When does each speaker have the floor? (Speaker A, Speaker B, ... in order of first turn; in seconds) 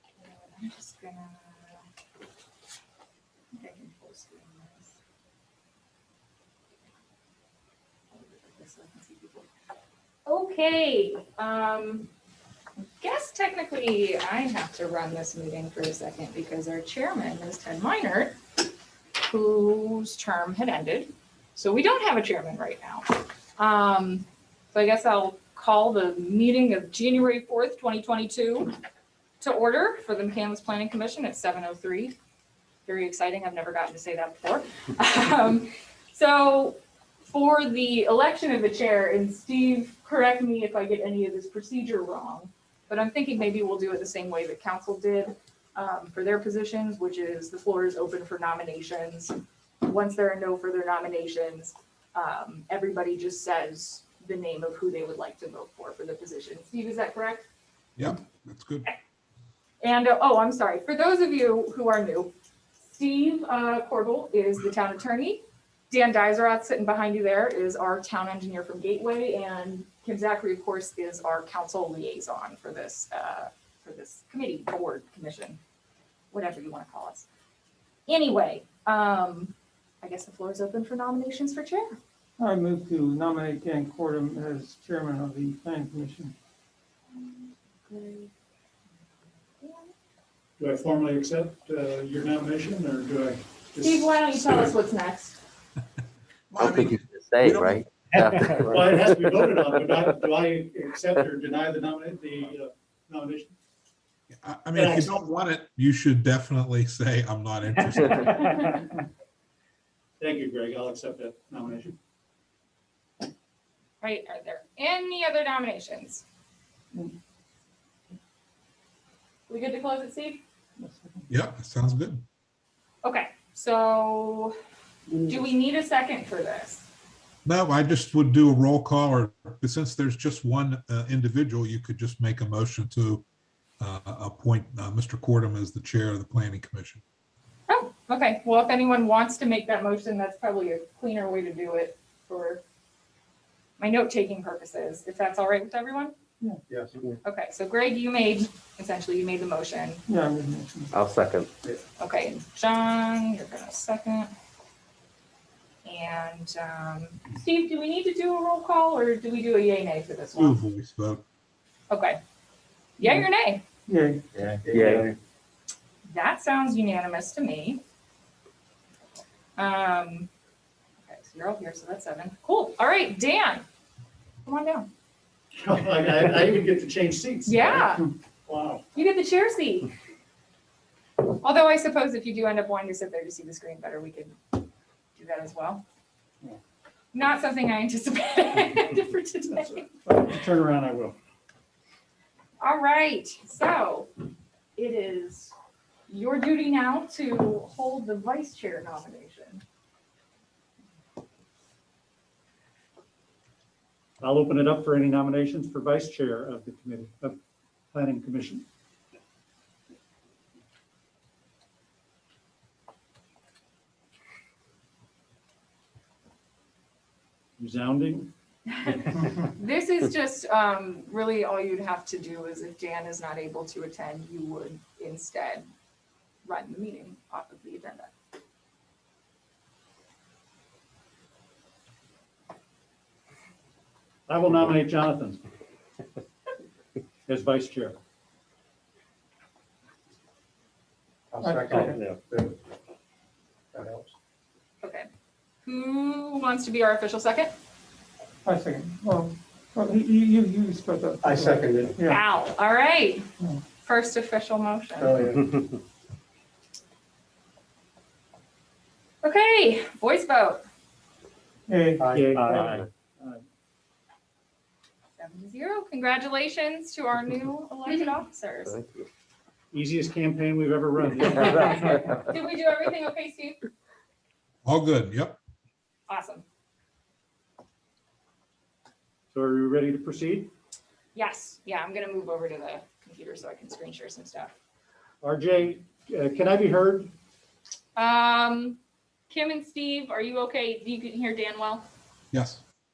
Speaker A: 0.2-1.8, 3.5-5.0, 8.1-9.5, 10.2-12.1, 12.8-18.4, 19.2-28.7, 29.4-32.1, 32.9-57.5, 59.8-62.3, 62.9-75.6, 76.3-77.3, 78.1-82.0, 87.1-88.3, 89.6-89.9, 93.8-95.4, 114.0-116.2, 119.5-120.4, 123.0-124.5, 125.2-126.9, 137.7-142.6, 143.8-146.1, 147.2-150.0, 152.0-154.3, 155.8-160.6, 161.9-162.2, 163.0-163.6, 166.1-167.8, 169.6-170.3, 171.0-173.7, 174.4-174.9, 177.5-178.1, 178.9-179.9, 181.3-184.6, 185.2-185.8, 187.1-189.9, 192.6-194.1, 194.8-195.5, 196.1-199.6, 218.8-225.7, 226.4-228.1, 244.8-245.1, 245.6-247.5, 252.1-253.3, 253.8-255.2, 259.2-260.6, 265.2-268.8, 271.5-273.6, 276.1-276.4, 281.1-284.5, 287.9-288.8, 289.3-291.9
Speaker B: 58.0-58.9, 96.5-98.6, 104.3-108.7, 121.3-122.2, 127.4-133.2, 133.8-137.0, 160.3-161.2, 274.7-275.4, 292.3-292.6
Speaker C: 82.4-86.3, 120.8-121.3, 150.1-151.0, 163.9-164.2, 241.4-242.0, 248.4-252.2, 261.7-262.1
Speaker D: 90.6-94.7, 98.5-103.5, 104.7-105.2, 108.1-109.0, 110.2-111.9, 175.6-178.8, 190.0-191.2, 204.2-207.4, 207.9-208.6, 217.6-218.3, 234.3-235.4, 237.3-238.0, 262.1-263.4, 269.7-272.1, 279.3-280.5, 285.2-287.1
Speaker E: 96.6-99.7, 150.9-151.5, 164.7-165.1, 262.4-262.8, 268.7-269.0
Speaker F: 146.7-146.9, 164.3-165.2, 241.3-242.6, 243.7-244.1, 251.2-251.9, 255.0-255.7, 262.0-262.6